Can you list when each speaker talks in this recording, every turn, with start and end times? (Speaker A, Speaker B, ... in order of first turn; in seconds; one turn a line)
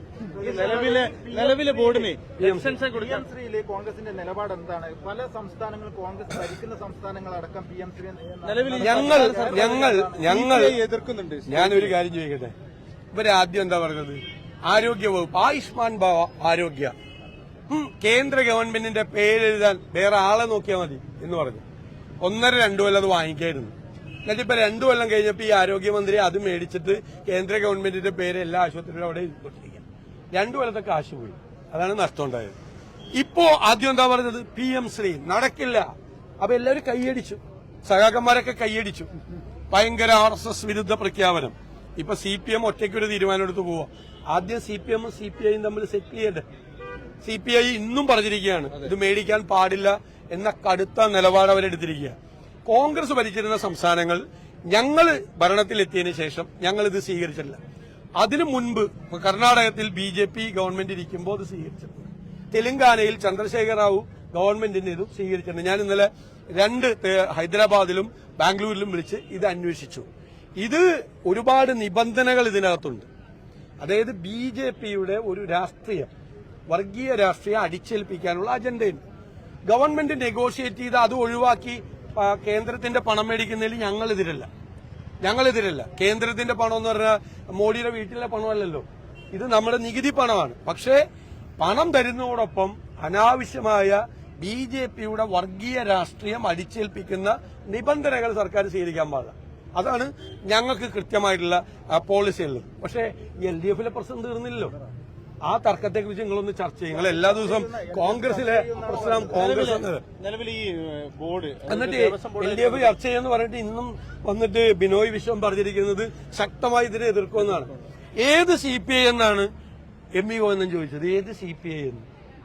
Speaker A: 0.3-2.1
Speaker B: 0.4-3.2
Speaker C: 2.4-2.8
Speaker A: 2.9-10.4
Speaker B: 8.4-12.0
Speaker C: 8.8-10.8
Speaker C: 11.5-12.5
Speaker C: 13.1-16.9
Speaker C: 17.7-21.6
Speaker C: 22.2-23.7
Speaker C: 24.3-32.5
Speaker C: 33.2-39.1
Speaker C: 39.7-46.5
Speaker C: 47.2-52.1
Speaker C: 52.7-57.6
Speaker C: 58.2-70.1
Speaker C: 70.6-73.1
Speaker C: 73.8-76.1
Speaker C: 76.7-79.0
Speaker C: 79.7-84.5
Speaker C: 85.2-91.0
Speaker C: 91.6-104.8
Speaker C: 105.5-110.0
Speaker A: 106.9-109.6
Speaker B: 109.2-112.9
Speaker C: 111.7-119.5
Speaker C: 120.2-122.1